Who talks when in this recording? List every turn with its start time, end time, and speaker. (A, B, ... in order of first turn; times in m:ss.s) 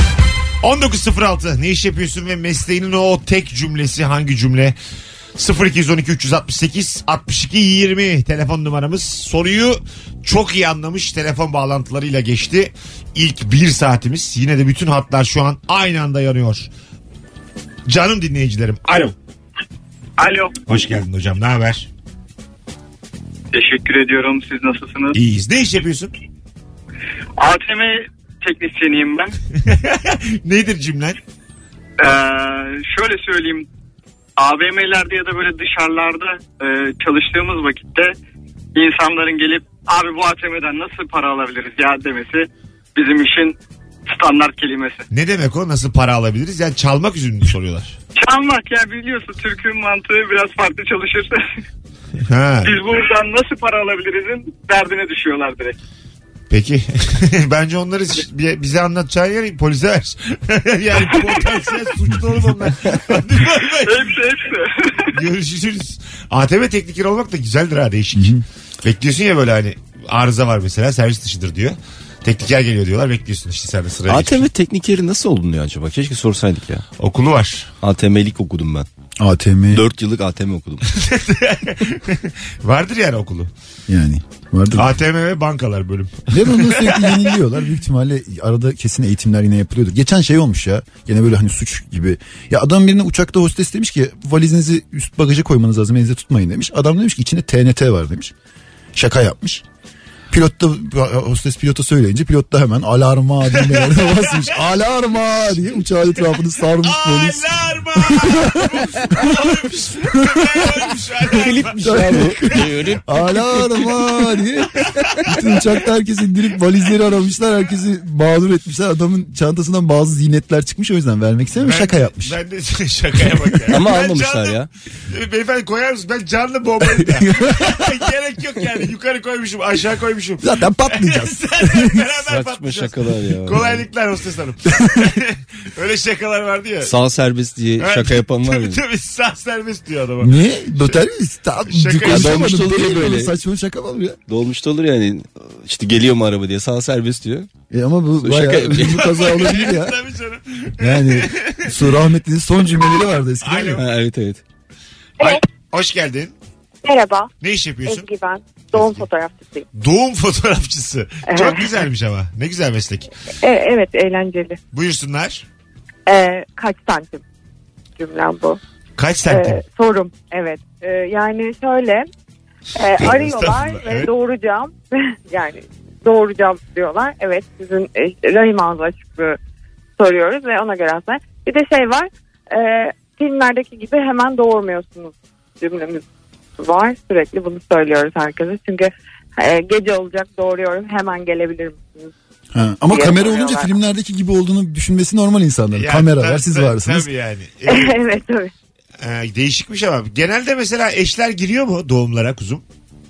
0:00.6-0:04.8 A
0:05.4-0:16.7 A
0:17.9-0:19.2 A
0:20.2-0:20.6 B
0:20.7-0:21.9 A
0:23.5-0:25.2 B
0:25.1-0:26.1 A
0:27.4-0:29.3 B
0:29.6-0:31.2 A
0:32.0-0:33.7 B
0:34.4-0:38.1 B
0:38.7-0:45.0 B
0:45.1-0:48.0 A
0:48.2-0:51.4 B
0:52.3-0:52.8 A
0:52.6-0:55.8 B
0:56.5-1:04.2 A
1:01.2-1:01.4 B
1:03.8-1:05.2 B
1:05.1-1:14.4 A
1:08.1-1:08.4 C
1:14.1-1:16.8 D
1:17.0-1:17.7 A
1:17.8-1:18.9 D
1:19.2-1:19.8 C
1:19.7-1:20.8 D
1:20.9-1:23.5 A
1:23.9-1:24.9 C
1:24.8-1:27.4 A
1:26.3-1:38.3 C
1:38.9-1:39.6 C
1:40.3-1:50.5 C
1:43.5-1:44.6 A
1:46.8-1:53.0 A
1:51.3-1:54.2 D
1:51.8-1:52.4 C
1:53.0-2:02.4 C
2:01.6-2:16.9 A
2:03.7-2:04.7 D
2:07.0-2:07.8 C
2:10.4-2:12.0 C
2:12.3-2:13.8 D
2:16.8-2:18.8 D
2:17.8-2:21.0 A
2:20.2-2:24.2 C
2:21.6-2:22.5 A
2:22.0-2:23.3 D
2:24.3-2:27.5 D
2:27.7-2:29.9 C
2:28.2-2:29.1 D
2:29.0-2:31.8 A
2:30.8-2:33.8 C
2:33.4-2:33.8 A
2:33.8-2:34.4 D
2:35.2-2:36.3 A
2:36.8-2:37.3 E
2:37.4-2:38.0 A
2:37.8-2:39.6 E
2:38.7-2:39.0 A
2:39.7-2:43.1 A
2:41.3-2:41.6 E
2:43.4-2:44.6 E
2:44.7-2:45.4 A
2:46.1-2:47.2 E
2:48.0-2:48.6 E
2:49.0-2:49.6 A
2:49.3-2:52.1 E
2:52.8-2:59.4 E
2:53.0-2:54.1 A
3:00.0-3:06.0 E
3:06.6-3:12.1 E
3:12.5-3:17.1 C
3:12.9-3:13.7 E
3:15.7-3:18.0 A
3:17.7-3:18.5 E
3:19.0-3:22.6 A